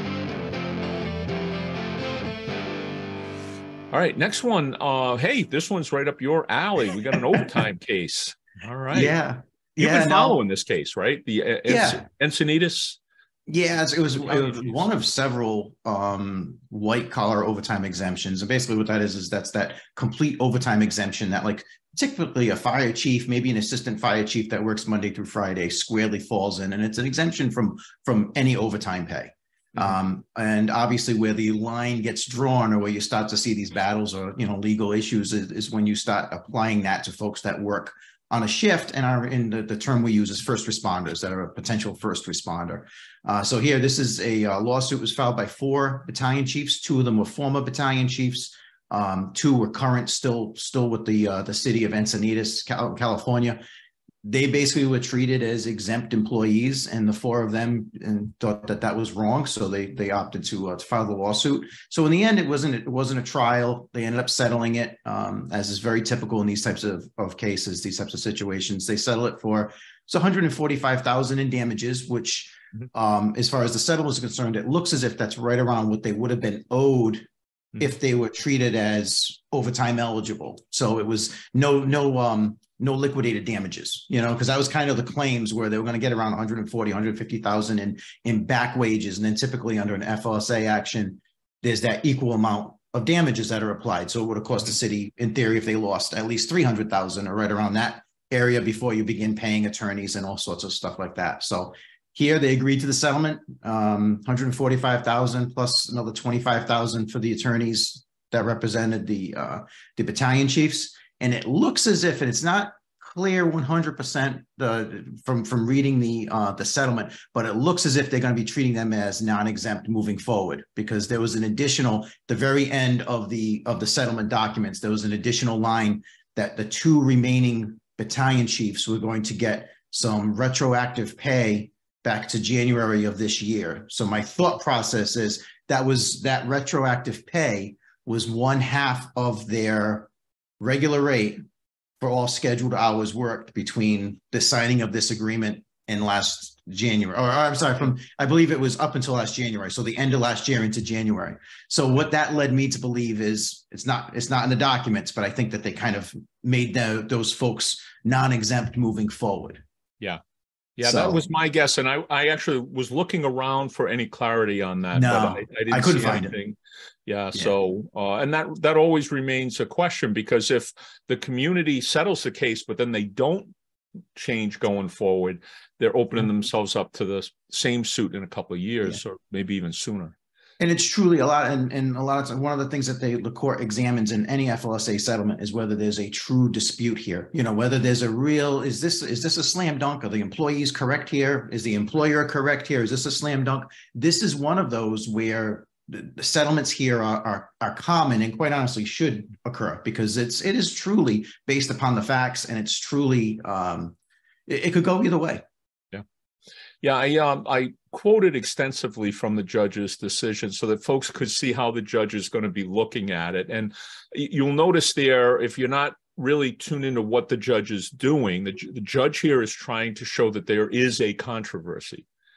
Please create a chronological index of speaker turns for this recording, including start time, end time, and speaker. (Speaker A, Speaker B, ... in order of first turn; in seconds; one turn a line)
Speaker A: 3.9-9.2
Speaker B: 8.9-10.4
Speaker A: 9.8-13.0
Speaker B: 11.7-12.0
Speaker B: 13.5-53.6
Speaker A: 14.2-14.9
Speaker B: 54.2-141.4
Speaker B: 142.0-159.6
Speaker A: 160.8-173.6
Speaker B: 160.8-161.2
Speaker B: 164.9-166.3
Speaker A: 174.2-180.2
Speaker B: 180.6-204.0
Speaker B: 204.5-205.4
Speaker A: 206.8-222.1